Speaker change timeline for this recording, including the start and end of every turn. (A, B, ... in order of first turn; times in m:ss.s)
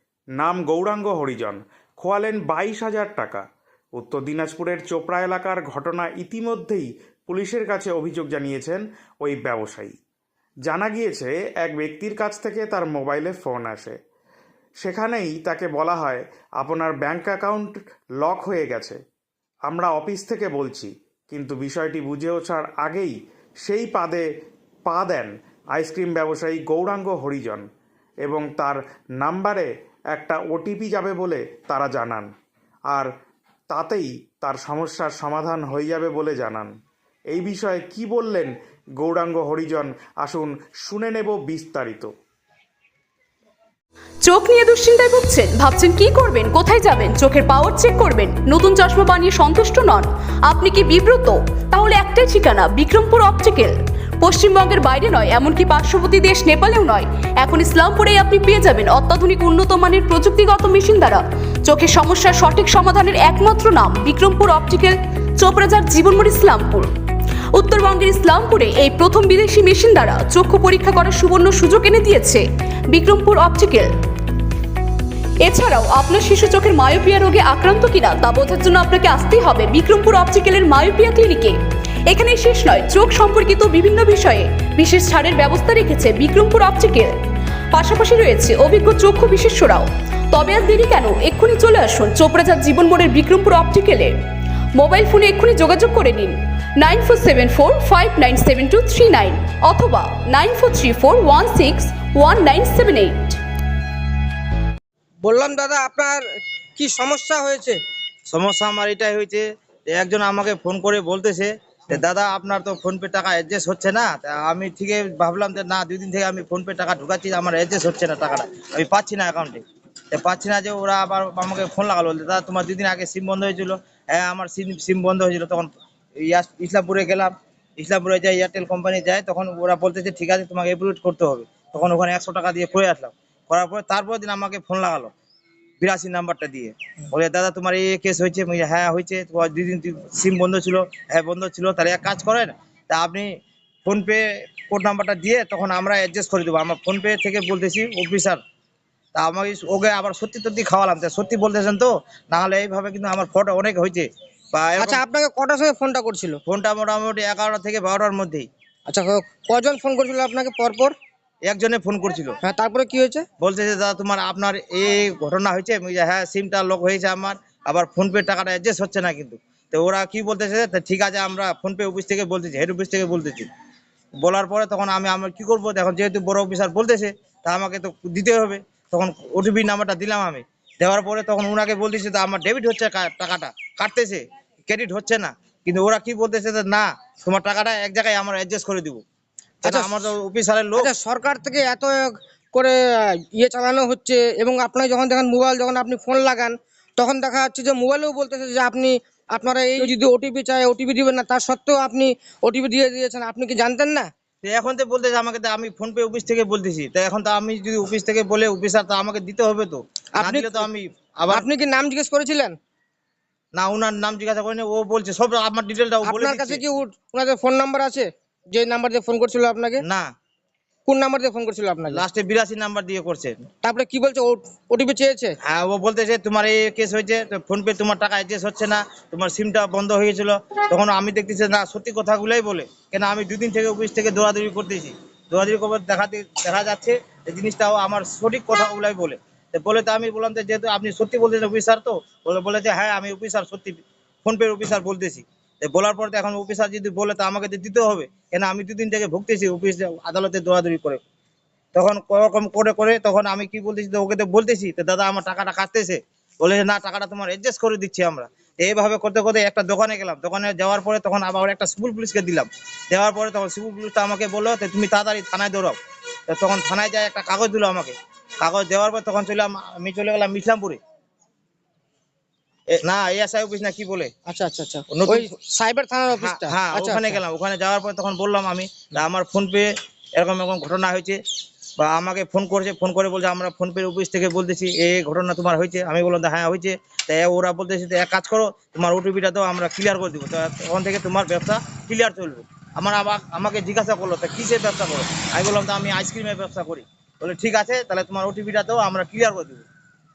0:00.4-0:03.4 A
0:04.0-0:09.9 A
0:10.6-0:14.0 A
0:14.8-0:19.0 A
0:19.7-0:24.2 A
0:24.9-0:27.6 A
0:28.2-0:32.3 A
0:33.7-0:36.7 A
0:37.3-0:42.1 A
0:44.2-1:06.9 B
1:07.5-1:13.9 B
1:15.4-1:27.2 B
1:27.7-1:34.2 B
1:34.7-1:43.4 B
1:45.2-1:46.2 C
1:46.8-1:47.8 C
1:48.3-2:05.7 D
2:06.2-2:15.1 D
2:15.8-2:28.4 D
2:29.1-2:35.0 D
2:34.8-2:36.4 C
2:36.4-2:38.5 D
2:38.9-2:40.9 C
2:41.4-2:42.4 D
2:42.4-2:43.2 C
2:43.4-2:53.5 D
2:54.2-3:09.0 D
3:09.6-3:10.9 D
3:09.6-3:10.0 C
3:10.8-3:24.1 C
3:24.4-3:31.4 D
3:30.2-3:30.6 C
3:31.3-3:32.5 C
3:33.5-3:36.6 D
3:36.0-3:39.8 C
3:39.8-3:40.1 D
3:40.8-3:42.0 C
3:41.9-3:43.4 D
3:43.6-3:45.3 C
3:45.4-4:11.0 D
4:11.7-4:25.8 D
4:26.3-4:30.8 D
4:32.7-4:34.1 D
4:34.3-4:37.2 C
4:34.9-4:35.3 D
4:36.1-4:41.2 D
4:41.8-4:59.6 D